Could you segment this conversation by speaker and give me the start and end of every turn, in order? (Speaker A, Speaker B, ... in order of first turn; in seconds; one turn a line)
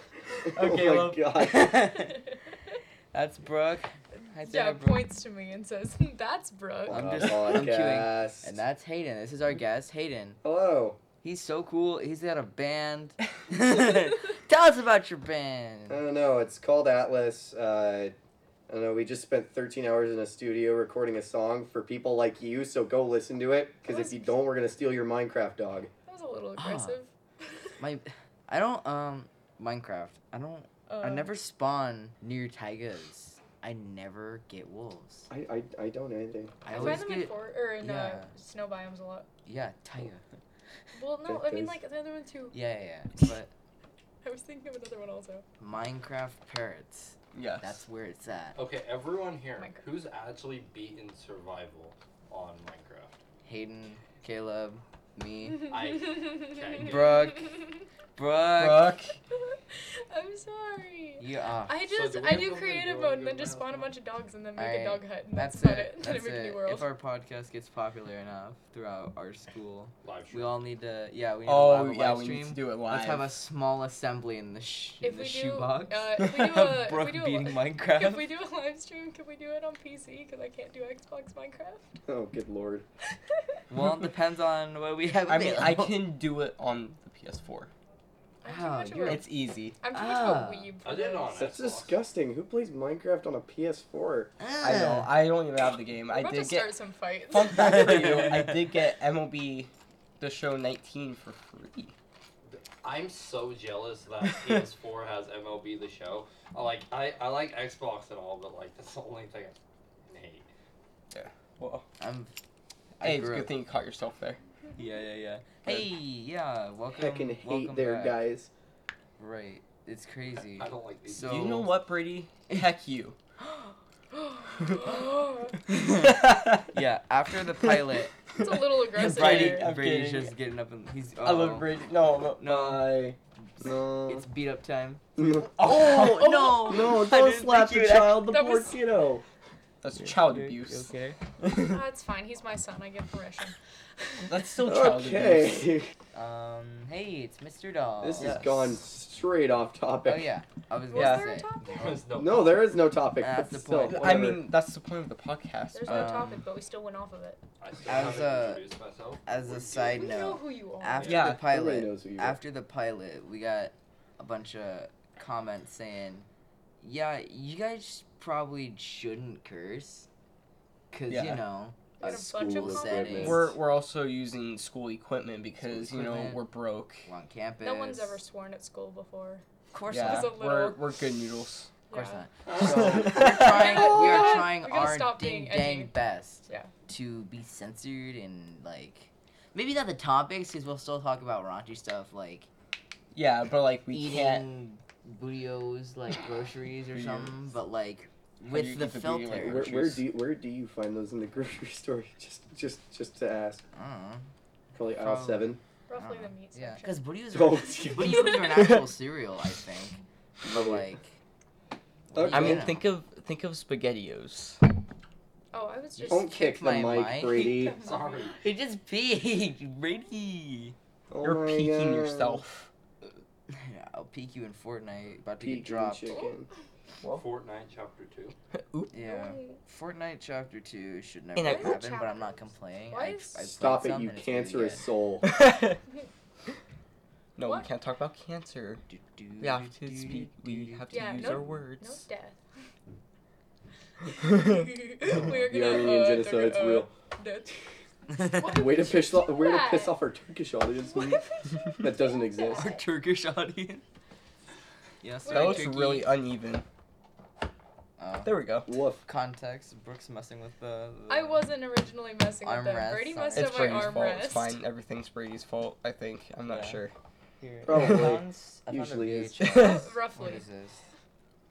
Speaker A: 0.5-1.2
Speaker B: 0.5-1.7
Speaker C: 1.3-2.3
Speaker D: 1.7-2.4
Speaker C: 3.1-5.1
Speaker D: 4.5-7.7
Speaker C: 6.8-10.4
Speaker B: 6.9-8.5
Speaker B: 10.4-11.0
Speaker C: 11.2-16.0
Speaker B: 15.9-18.1
Speaker B: 18.7-25.9
Speaker D: 23.9-24.2
Speaker D: 26.1-27.7
Speaker C: 26.6-27.0
Speaker C: 27.8-35.3
Speaker D: 30.9-31.3
Speaker B: 35.3-37.0
Speaker C: 36.6-38.3
Speaker D: 36.7-39.3
Speaker C: 39.4-40.2
Speaker D: 40.9-42.6
Speaker B: 41.2-41.8
Speaker C: 42.5-43.5
Speaker D: 44.2-45.4
Speaker C: 45.6-48.6
Speaker A: 47.3-47.8
Speaker E: 48.5-53.2
Speaker C: 53.4-55.7
Speaker D: 55.7-57.8
Speaker E: 55.7-57.3
Speaker C: 56.8-59.0
Speaker A: 58.6-59.2
Speaker D: 59.3-66.8
Speaker C: 61.2-61.8
Speaker E: 61.9-63.9
Speaker C: 64.5-78.3
Speaker E: 70.0-70.6
Speaker A: 71.5-73.3
Speaker D: 75.0-82.0
Speaker B: 82.0-82.8
Speaker C: 83.7-86.1
Speaker A: 85.2-87.7
Speaker D: 88.4-91.4
Speaker C: 88.4-89.3
Speaker A: 89.0-89.8
Speaker C: 89.9-90.7
Speaker E: 90.8-92.0
Speaker B: 91.4-94.3
Speaker C: 94.4-95.2
Speaker A: 94.6-101.9
Speaker D: 96.1-98.1
Speaker C: 97.7-98.6
Speaker E: 102.5-110.5
Speaker A: 111.1-111.8
Speaker C: 112.0-112.3
Speaker C: 112.9-113.5
Speaker A: 113.0-114.4
Speaker C: 114.8-118.2
Speaker B: 116.9-118.5
Speaker C: 119.2-121.7
Speaker E: 120.4-121.6
Speaker A: 121.2-123.2
Speaker D: 124.2-125.6
Speaker A: 124.6-124.9
Speaker C: 125.7-126.2
Speaker A: 125.7-126.7
Speaker C: 126.7-128.2
Speaker D: 128.4-129.7
Speaker A: 128.4-130.3
Speaker C: 128.9-131.7
Speaker A: 131.2-133.1
Speaker C: 132.4-135.0
Speaker B: 133.6-134.2
Speaker B: 135.2-135.5
Speaker A: 135.4-136.9
Speaker C: 135.6-138.4
Speaker B: 136.4-139.2
Speaker D: 138.3-138.7
Speaker A: 139.8-141.8
Speaker C: 139.9-141.2
Speaker D: 141.6-144.3
Speaker A: 144.2-145.7
Speaker B: 144.6-145.9
Speaker C: 146.1-148.4
Speaker B: 148.0-150.3
Speaker A: 148.2-148.7
Speaker C: 150.0-152.0
Speaker D: 150.9-151.9
Speaker A: 150.9-151.3
Speaker E: 151.7-152.6
Speaker B: 152.1-154.5
Speaker C: 153.2-154.3
Speaker A: 153.8-156.2
Speaker D: 155.7-157.4
Speaker C: 155.8-156.5
Speaker E: 157.6-160.1
Speaker C: 157.8-158.7
Speaker C: 159.2-166.3
Speaker D: 159.9-161.2
Speaker A: 161.1-161.4
Speaker B: 161.1-162.4
Speaker C: 166.8-170.1
Speaker C: 170.9-173.5
Speaker A: 171.1-171.4
Speaker D: 172.0-173.3
Speaker B: 172.0-173.5
Speaker A: 173.2-177.1
Speaker C: 175.6-176.4
Speaker C: 177.0-178.2
Speaker D: 177.6-180.8
Speaker C: 179.7-180.4
Speaker A: 179.9-181.7
Speaker D: 181.9-182.2
Speaker C: 181.9-192.5
Speaker B: 182.5-183.8
Speaker A: 182.6-183.5
Speaker D: 183.1-185.9
Speaker A: 193.1-194.5
Speaker C: 193.9-199.7
Speaker A: 196.9-197.4
Speaker A: 198.5-200.0
Speaker B: 199.3-203.6
Speaker C: 203.7-204.2
Speaker B: 204.7-205.6
Speaker C: 204.9-211.2
Speaker D: 205.9-207.0
Speaker B: 207.3-208.4
Speaker A: 208.4-208.9
Speaker B: 210.4-210.8
Speaker C: 212.1-212.8
Speaker B: 212.1-212.7
Speaker A: 212.3-214.6
Speaker D: 215.5-216.4
Speaker C: 216.0-217.6
Speaker B: 216.1-217.8
Speaker D: 217.2-218.3
Speaker E: 217.8-218.4
Speaker C: 218.3-220.7
Speaker B: 221.1-222.4
Speaker A: 221.2-222.7
Speaker C: 223.5-226.2
Speaker B: 225.4-226.5
Speaker E: 227.1-228.3
Speaker A: 228.5-228.9
Speaker C: 228.9-234.9
Speaker D: 229.0-229.6
Speaker A: 231.3-231.8
Speaker D: 231.4-232.4
Speaker D: 232.9-233.5
Speaker B: 233.5-235.2
Speaker A: 235.2-235.8
Speaker A: 237.3-238.8
Speaker C: 238.9-241.6
Speaker A: 239.4-242.0
Speaker D: 240.9-242.4
Speaker D: 244.1-247.6
Speaker B: 245.1-246.9
Speaker D: 248.1-249.9
Speaker C: 248.1-248.5
Speaker B: 248.5-251.2
Speaker D: 250.8-252.8
Speaker B: 251.8-252.6
Speaker C: 252.5-253.8
Speaker C: 255.0-256.1
Speaker D: 255.2-255.9
Speaker A: 255.3-256.6
Speaker C: 258.0-261.5
Speaker A: 258.2-258.7
Speaker B: 258.6-259.0
Speaker D: 261.1-264.6
Speaker C: 262.4-264.1
Speaker A: 263.3-266.9
Speaker C: 266.5-266.8
Speaker C: 267.4-270.8
Speaker B: 267.6-269.5
Speaker A: 269.4-269.8
Speaker D: 269.6-270.4